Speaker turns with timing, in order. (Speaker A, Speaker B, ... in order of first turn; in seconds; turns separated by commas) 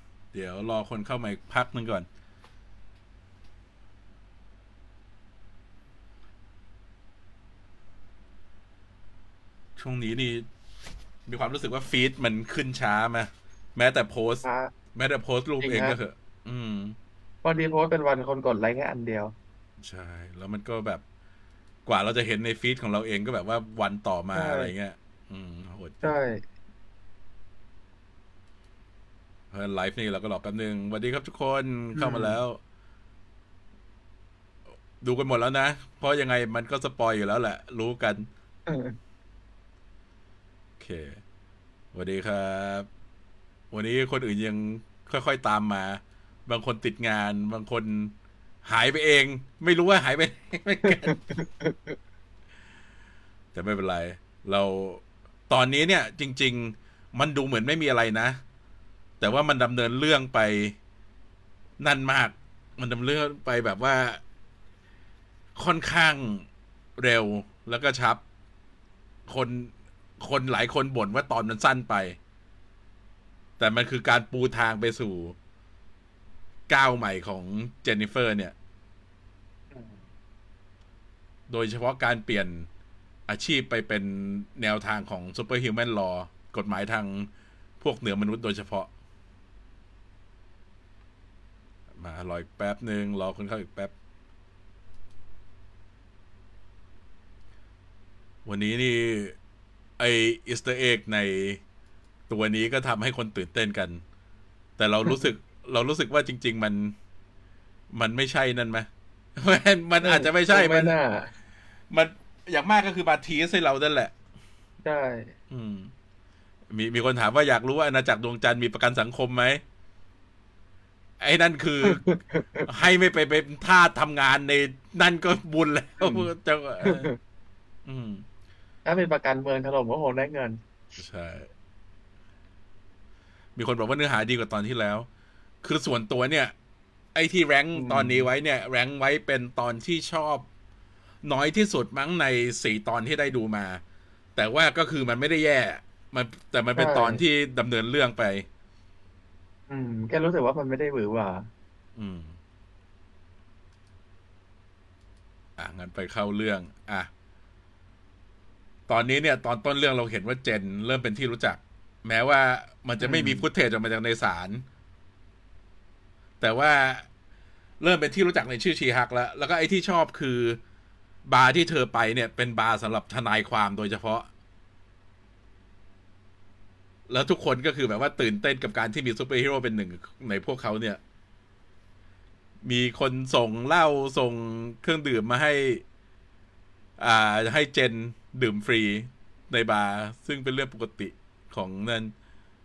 Speaker A: 0.3-2.1, Speaker A: 9.8-10.4, Speaker A: 11.2-16.9, Speaker B: 14.4-14.7, Speaker B: 15.6-15.9, Speaker B: 17.4-19.4, Speaker A: 19.8-21.0, Speaker A: 21.9-26.2, Speaker B: 24.3-24.7, Speaker B: 26.0-26.4, Speaker A: 29.5-32.6, Speaker B: 31.9-32.4, Speaker A: 35.0-38.3, Speaker B: 38.7-39.0, Speaker A: 40.8-41.2, Speaker A: 41.9-42.9, Speaker A: 43.7-51.2, Speaker B: 50.9-52.0, Speaker A: 53.5-58.4, Speaker A: 59.2-60.8, Speaker A: 61.8-64.2, Speaker A: 65.5-66.5, Speaker A: 67.0-68.2, Speaker A: 69.3-72.2, Speaker A: 73.6-75.3, Speaker A: 76.7-78.5, Speaker B: 79.7-80.0, Speaker A: 81.5-82.7, Speaker A: 83.3-87.3, Speaker A: 87.8-88.9, Speaker A: 92.0-93.9, Speaker A: 98.4-99.3, Speaker A: 100.0-101.6, Speaker A: 102.3-104.0, Speaker A: 104.8-107.0, Speaker A: 107.9-110.9, Speaker B: 110.0-111.3, Speaker A: 111.9-114.1, Speaker B: 114.8-115.3, Speaker A: 115.5-115.9, Speaker A: 116.7-119.6, Speaker A: 121.2-122.0, Speaker B: 121.8-122.7, Speaker A: 122.7-127.1, Speaker B: 126.0-126.3, Speaker B: 126.8-127.2, Speaker A: 127.9-128.2, Speaker B: 128.8-130.6, Speaker A: 131.0-131.5, Speaker A: 133.6-135.1, Speaker A: 135.6-136.5, Speaker A: 137.1-140.5, Speaker B: 137.8-138.3, Speaker A: 141.2-143.8, Speaker A: 144.3-148.5, Speaker B: 146.8-147.2, Speaker B: 149.7-151.5, Speaker A: 152.0-152.4, Speaker A: 155.6-157.1, Speaker A: 158.9-164.7, Speaker B: 163.0-163.4, Speaker A: 166.4-167.1, Speaker A: 167.8-170.6, Speaker A: 171.2-174.3, Speaker A: 177.1-181.0, Speaker A: 182.7-185.8, Speaker A: 187.0-192.1